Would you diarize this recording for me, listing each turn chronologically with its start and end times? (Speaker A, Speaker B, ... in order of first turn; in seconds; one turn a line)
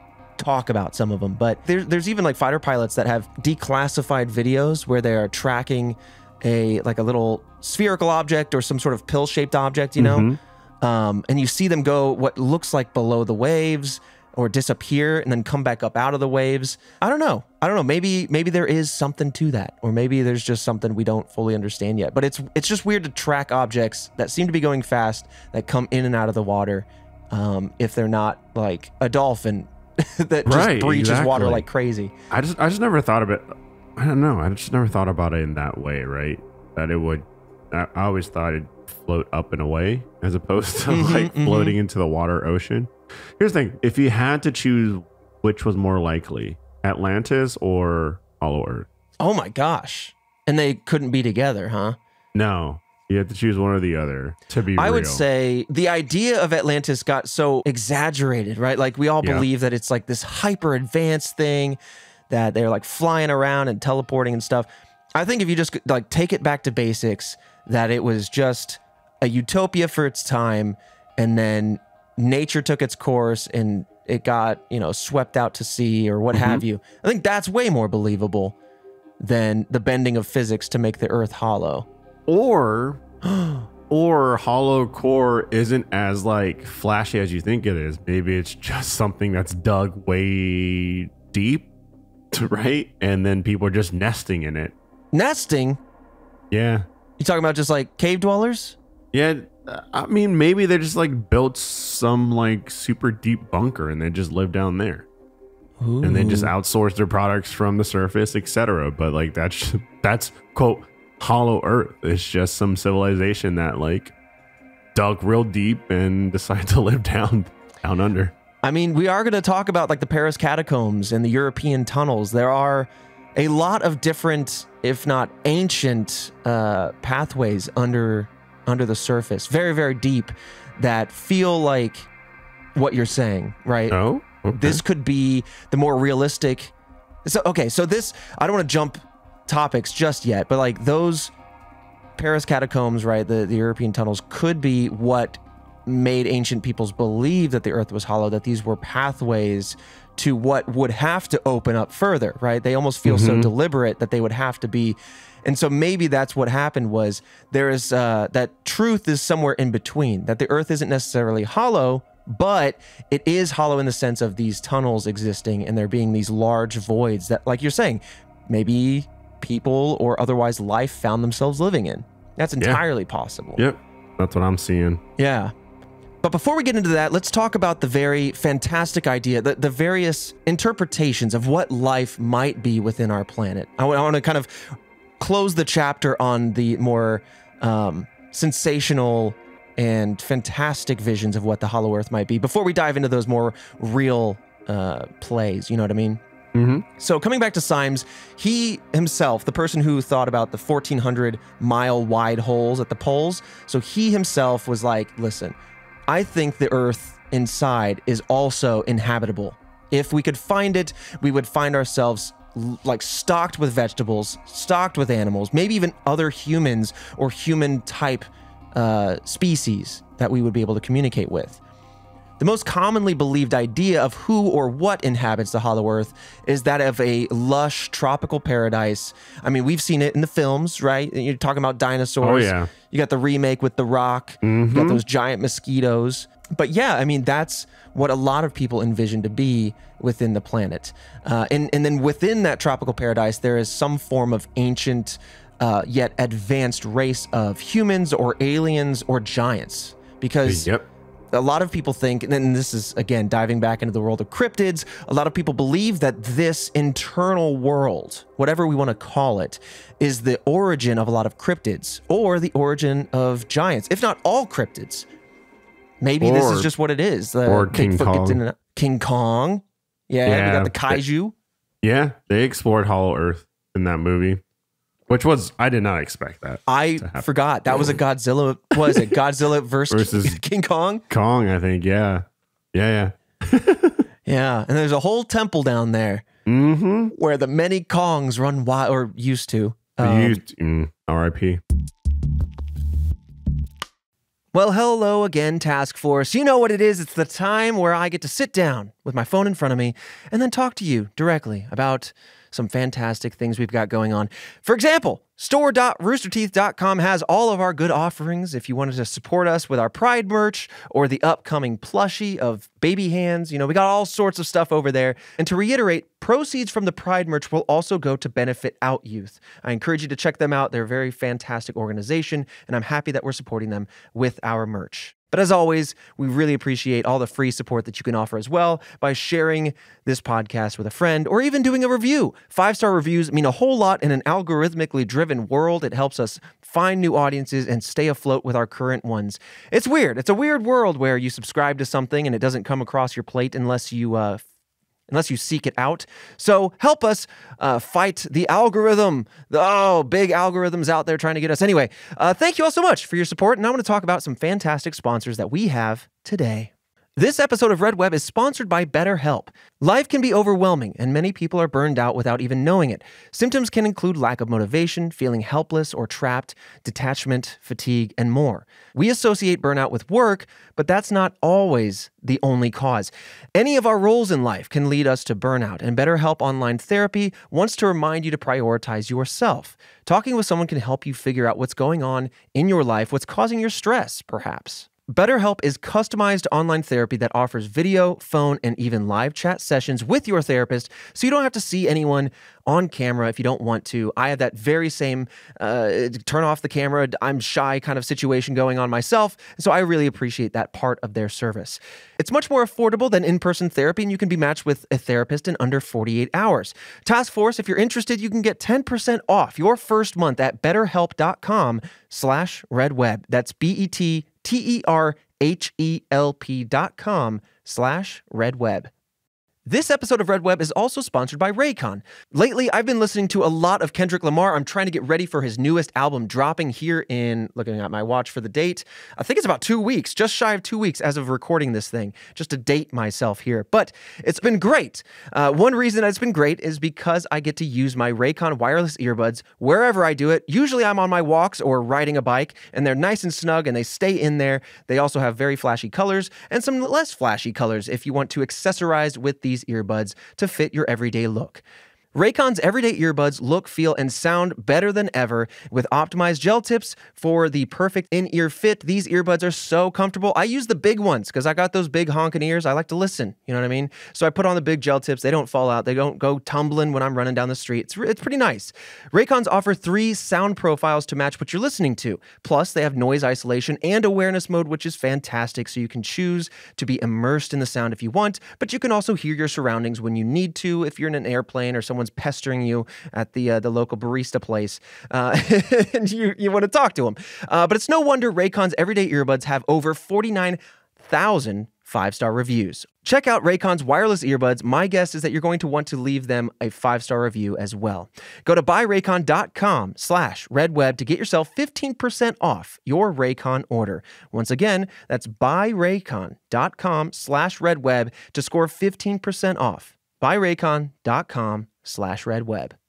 Speaker A: 0.4-32.1
Speaker B: 10.0-10.4
Speaker B: 30.4-31.6
Speaker B: 32.3-48.9
Speaker A: 40.9-41.8
Speaker A: 49.2-52.0
Speaker B: 52.3-55.2
Speaker A: 54.8-61.8
Speaker A: 62.3-78.5
Speaker B: 76.3-76.6
Speaker A: 79.2-81.9
Speaker B: 82.3-83.0
Speaker A: 83.3-83.6
Speaker B: 83.9-91.7
Speaker B: 92.3-94.7
Speaker A: 95.1-95.8
Speaker B: 96.5-96.9
Speaker A: 97.2-98.8
Speaker B: 99.1-105.0
Speaker A: 105.8-106.5
Speaker B: 106.0-114.1
Speaker B: 114.9-118.3
Speaker A: 118.6-132.1
Speaker A: 132.7-136.7
Speaker B: 133.9-134.8
Speaker A: 137.2-141.3
Speaker A: 142.2-173.6
Speaker B: 153.0-153.5
Speaker B: 173.6-175.0
Speaker A: 175.2-175.5
Speaker A: 176.2-196.2
Speaker B: 196.5-196.8
Speaker A: 197.0-205.6
Speaker A: 206.1-221.6
Speaker A: 222.4-250.7
Speaker B: 232.2-232.7
Speaker B: 234.4-235.0
Speaker B: 250.4-250.9
Speaker A: 251.3-265.1
Speaker A: 266.0-271.3
Speaker B: 266.2-266.7
Speaker B: 267.4-268.4
Speaker B: 270.2-271.0
Speaker B: 271.8-274.4
Speaker B: 275.1-278.0
Speaker A: 276.7-281.0
Speaker B: 278.8-279.1
Speaker B: 279.9-280.4
Speaker B: 281.1-284.0
Speaker A: 284.2-286.2
Speaker B: 286.4-287.1
Speaker A: 287.1-290.4
Speaker B: 290.0-291.6
Speaker A: 294.5-344.4
Speaker A: 345.1-418.9
Speaker A: 419.6-451.6
Speaker A: 452.1-512.7